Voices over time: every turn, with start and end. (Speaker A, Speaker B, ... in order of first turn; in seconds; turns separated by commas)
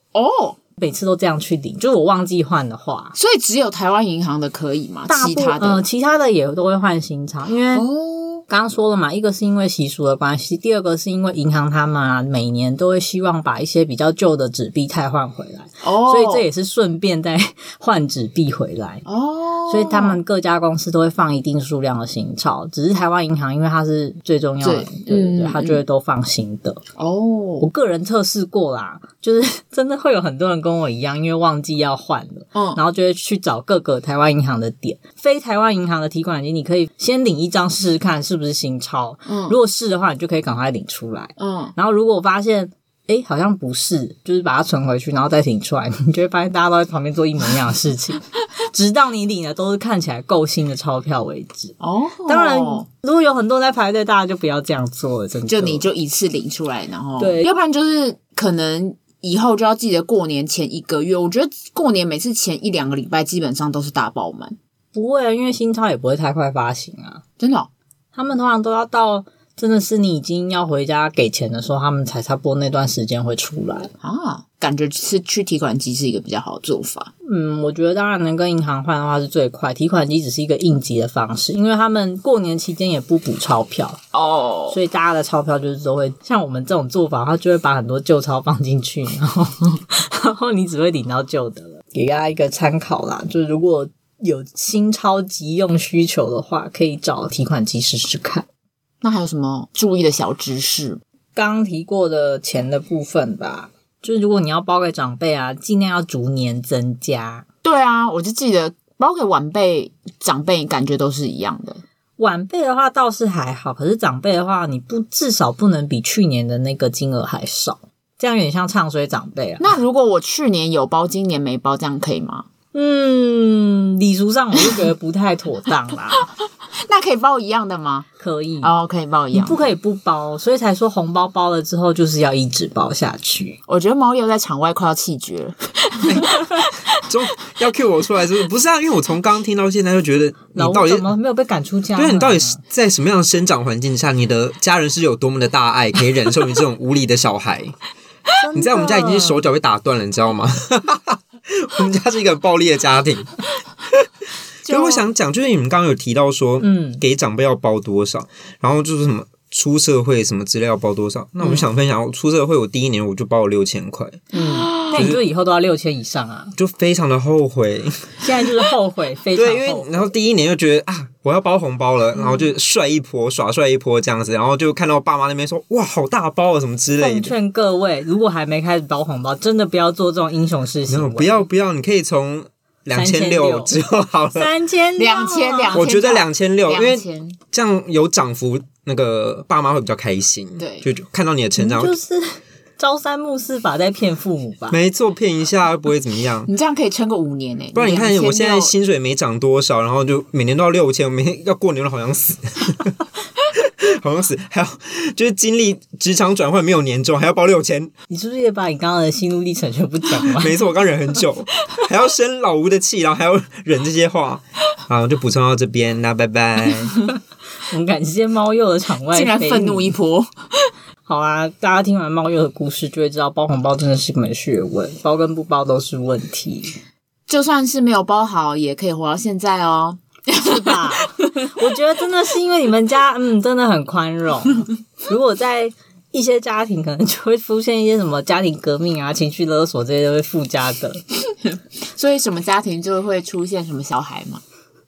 Speaker A: 0.1-0.6, Speaker B: 0.8-3.1, Speaker A: 3.1-5.8, Speaker B: 5.1-7.9, Speaker A: 7.7-8.4, Speaker B: 8.5-19.1, Speaker A: 15.8-16.5, Speaker A: 19.1-20.2, Speaker B: 19.7-26.8, Speaker A: 24.6-25.8, Speaker A: 27.0-27.7, Speaker B: 27.6-55.9, Speaker A: 32.5-32.8, Speaker A: 39.3-39.6, Speaker A: 41.4-41.7, Speaker A: 51.8-52.9, Speaker A: 55.5-64.6, Speaker B: 57.2-57.6, Speaker B: 64.9-67.2, Speaker A: 67.4-67.7, Speaker B: 68.1-73.9, Speaker A: 74.0-77.1, Speaker B: 77.2-84.0, Speaker A: 84.1-84.8, Speaker B: 84.7-98.5, Speaker A: 99.0-101.0, Speaker B: 101.3-107.5, Speaker A: 107.6-111.8, Speaker B: 112.2-119.8, Speaker A: 119.6-122.5, Speaker B: 122.7-126.3, Speaker A: 126.8-128.1, Speaker B: 128.2-128.7, Speaker A: 128.6-129.7, Speaker B: 129.3-133.6, Speaker A: 133.7-136.7, Speaker C: 136.9-141.1, Speaker B: 140.6-142.6, Speaker C: 142.0-147.8, Speaker B: 148.4-149.4, Speaker C: 148.6-153.4, Speaker A: 154.7-155.1, Speaker C: 154.7-164.3, Speaker B: 156.6-157.0, Speaker B: 164.3-166.6, Speaker A: 164.3-165.2, Speaker C: 164.9-165.2, Speaker C: 166.6-168.3, Speaker B: 168.2-170.1, Speaker C: 169.3-177.3, Speaker A: 172.2-172.4, Speaker B: 177.0-181.5, Speaker C: 180.9-184.5, Speaker B: 182.9-183.8, Speaker B: 184.3-185.8, Speaker A: 185.0-187.4, Speaker C: 185.7-191.9, Speaker A: 190.6-190.9, Speaker B: 191.6-194.8, Speaker C: 194.7-196.5, Speaker A: 196.5-198.7, Speaker C: 197.8-202.9, Speaker C: 203.5-207.9, Speaker B: 208.1-210.6, Speaker C: 210.2-217.0, Speaker B: 217.6-219.9, Speaker A: 219.1-220.7, Speaker B: 221.1-226.8, Speaker A: 227.3-231.5, Speaker B: 230.4-241.0, Speaker A: 241.8-244.4